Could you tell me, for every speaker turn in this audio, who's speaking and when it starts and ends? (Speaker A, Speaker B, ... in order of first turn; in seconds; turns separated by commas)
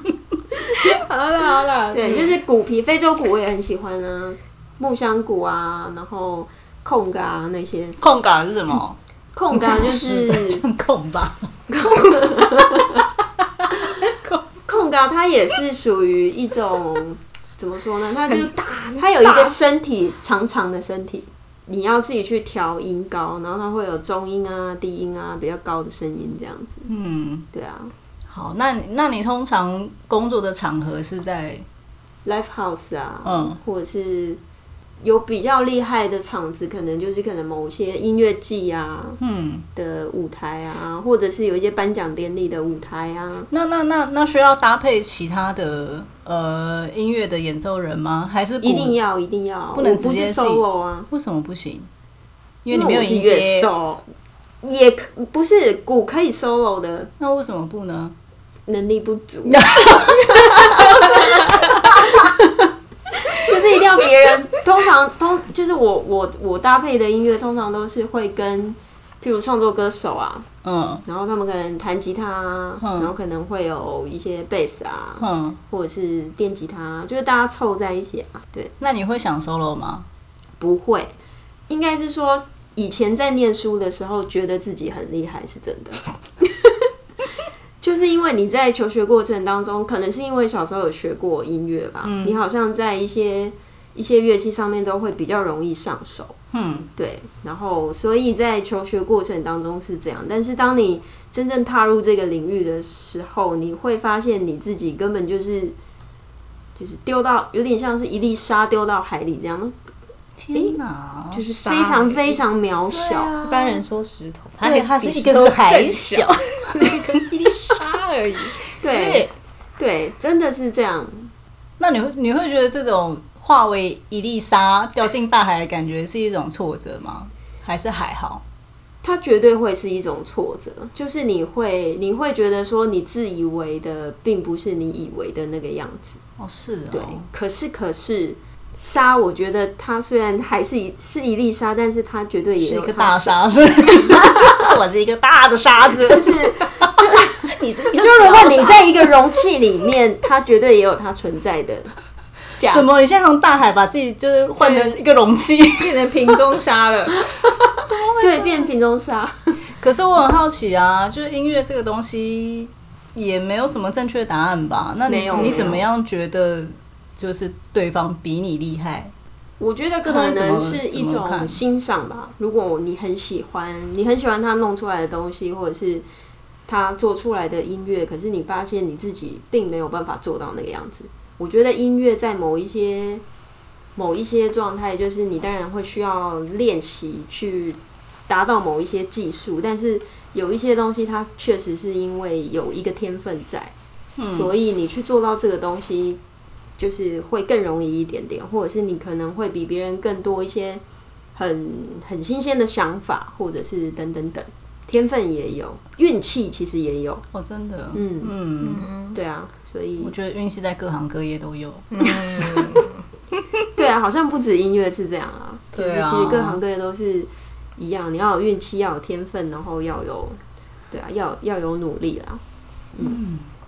Speaker A: 0.6-2.4, Speaker B: 1.9-8.0, Speaker C: 8.0-9.0, Speaker B: 9.3-10.6, Speaker C: 9.5-11.5, Speaker B: 11.7-13.0, Speaker A: 11.8-12.9, Speaker A: 13.6-14.1, Speaker B: 14.7-26.9, Speaker A: 18.3-19.6, Speaker C: 26.9-27.5, Speaker B: 27.5-27.9, Speaker C: 28.3-31.6, Speaker B: 32.2-34.4, Speaker C: 33.2-33.6, Speaker B: 35.0-39.2, Speaker C: 39.2-39.6, Speaker B: 39.7-43.5, Speaker C: 43.5-49.0, Speaker B: 48.6-51.1, Speaker C: 49.7-51.9, Speaker C: 52.6-53.7, Speaker B: 52.7-54.0, Speaker B: 54.6-57.1, Speaker C: 57.2-58.1, Speaker B: 58.7-61.4, Speaker C: 59.5-62.1, Speaker A: 60.0-61.9, Speaker B: 63.4-70.5, Speaker C: 70.6-71.0, Speaker B: 71.0-78.7, Speaker C: 72.8-73.1, Speaker C: 75.2-75.6, Speaker C: 78.8-80.0, Speaker B: 80.6-81.1, Speaker B: 81.7-86.9, Speaker B: 87.8-96.4, Speaker C: 92.0-92.4, Speaker C: 96.5-96.9, Speaker B: 96.9-105.8, Speaker B: 106.8-109.8, Speaker C: 110.4-111.5, Speaker B: 111.3-113.6, Speaker A: 111.3-112.4, Speaker C: 112.9-113.6, Speaker A: 113.4-118.6, Speaker C: 114.6-117.2, Speaker C: 118.8-119.3, Speaker B: 118.8-121.3, Speaker C: 121.8-128.4, Speaker B: 129.0-136.2, Speaker C: 136.4-137.2, Speaker B: 136.9-144.7, Speaker C: 142.6-149.1, Speaker B: 145.9-151.9, Speaker B: 152.6-153.0, Speaker C: 152.6-156.1, Speaker A: 154.6-155.0, Speaker A: 155.8-157.2, Speaker C: 157.8-158.7, Speaker B: 158.2-159.5, Speaker C: 159.8-169.1, Speaker B: 165.1-165.8, Speaker A: 165.3-165.7, Speaker B: 169.6-176.0, Speaker C: 170.0-171.6, Speaker B: 176.7-183.2, Speaker B: 183.9-193.7, Speaker C: 194.2-194.5, Speaker B: 194.3-196.2, Speaker B: 196.8-200.8, Speaker B: 201.3-207.2, Speaker C: 207.3-208.9, Speaker B: 207.9-208.3, Speaker A: 208.6-209.2, Speaker B: 209.1-210.1, Speaker C: 210.0-212.6, Speaker A: 211.9-213.0, Speaker B: 213.7-222.4, Speaker C: 215.7-216.6, Speaker C: 223.0-223.5